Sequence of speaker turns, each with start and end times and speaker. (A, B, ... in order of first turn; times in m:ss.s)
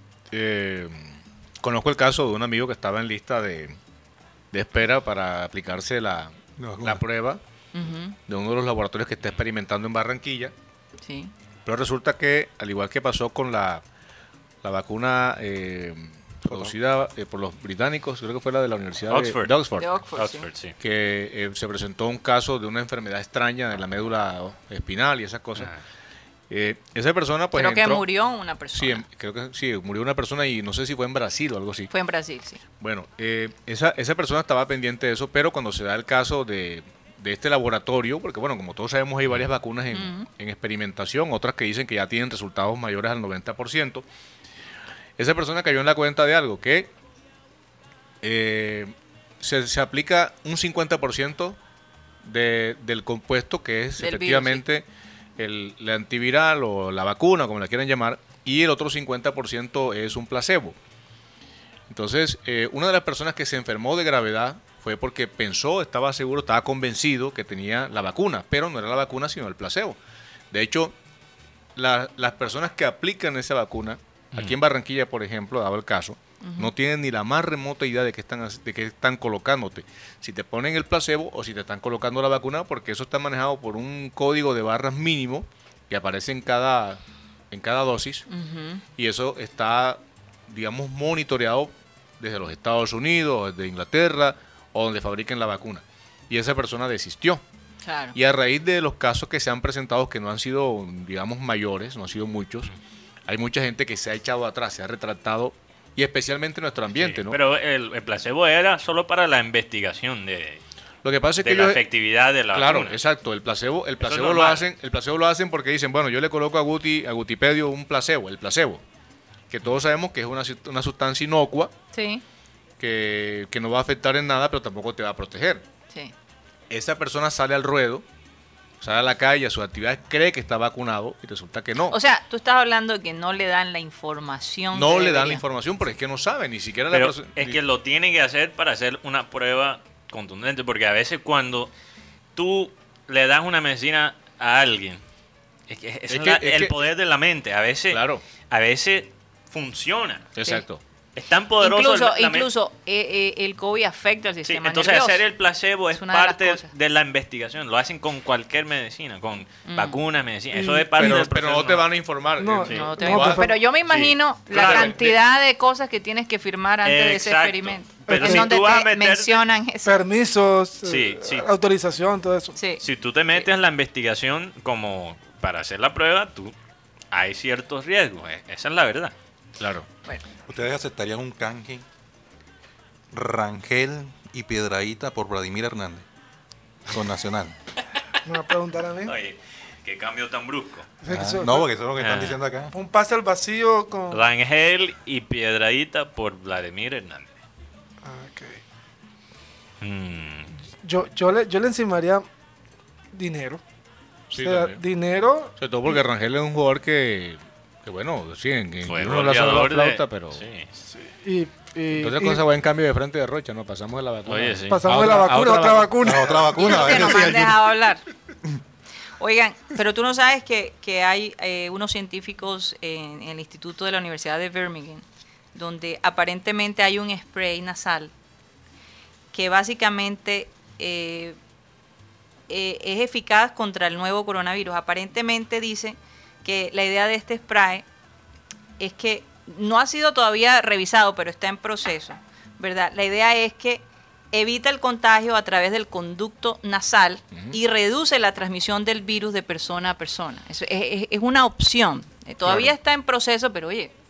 0:00.3-0:03.8 A
0:04.5-0:07.4 A
0:06.6-0:07.0 B
0:07.7-0:08.2 C
0:08.3-0:10.5 A
0:11.0-0:11.3 C
0:11.6-0:13.8 A
0:14.6-0:19.9 A
0:16.5-0:16.7 B
0:19.1-0:19.5 D
0:19.8-0:20.5 C
0:20.1-0:20.8 D
0:20.8-0:25.7 A
0:26.5-0:28.1 A
0:27.5-0:29.0 C
0:28.7-0:31.9 A
0:31.9-0:32.6 C
0:32.8-0:44.0 A
0:39.9-0:40.3 C
0:45.2-0:46.9 A
0:48.2-0:51.6 A
0:52.2-0:54.8 A
0:54.0-0:54.6 C
0:55.4-1:00.8 A
1:01.9-1:10.0 A
1:10.5-1:10.9 A
1:11.8-1:28.3 A
1:16.4-1:16.7 C
1:28.3-1:28.8 C
1:29.0-1:37.4 A
1:37.8-1:38.2 C
1:38.1-1:42.7 A
1:43.3-1:47.4 A
1:47.0-1:50.6 D
1:51.0-1:51.8 A
1:51.4-1:53.0 D
1:52.5-1:58.8 A
1:54.0-1:54.7 D
1:59.5-2:01.7 A
2:01.9-2:02.2 C
2:02.8-2:05.6 A
2:06.7-2:08.0 A
2:08.8-2:12.0 A
2:11.9-2:15.4 C
2:14.7-2:17.6 A
2:16.9-2:21.7 D
2:22.4-2:25.0 D
2:25.7-2:30.3 D
2:26.1-2:26.7 A
2:27.9-2:28.2 A
2:30.4-2:30.8 A
2:31.2-2:32.5 D
2:31.6-2:35.2 C
2:34.4-2:41.8 D
2:35.9-2:36.7 C
2:39.6-2:40.0 C
2:40.5-2:41.2 E
2:41.0-2:44.8 A
2:42.4-2:43.5 E
2:42.7-2:50.0 C
2:43.9-2:45.1 D
2:44.6-2:44.9 E
2:46.8-2:49.4 D
2:48.0-2:48.5 E
2:49.8-2:52.6 E
2:50.8-2:51.5 D
2:52.6-2:53.5 C
2:52.8-2:56.5 D
2:57.1-2:59.1 D
2:59.6-2:59.9 A
3:00.5-3:01.8 B
3:03.1-3:06.0 B
3:06.9-3:07.5 B
3:08.2-3:09.1 E
3:09.0-3:10.9 D
3:11.0-3:11.7 E
3:11.1-3:12.7 B
3:12.0-3:12.4 D
3:12.7-3:14.2 E
3:14.1-3:17.3 D
3:18.0-3:18.6 E
3:19.8-3:20.5 D
3:20.8-3:22.2 E
3:23.1-3:23.6 E
3:24.3-3:24.8 A
3:24.3-3:25.5 E
3:25.6-3:30.4 A
3:28.8-3:30.7 D
3:30.9-3:32.4 E
3:31.9-3:36.8 A
3:34.3-3:35.1 D
3:34.7-3:36.4 E
3:36.0-3:37.7 B
3:36.6-3:38.0 C
3:39.2-3:48.1 C
3:49.3-3:51.4 C
3:52.5-3:57.8 C
3:58.8-4:13.9 C
4:12.4-4:12.7 A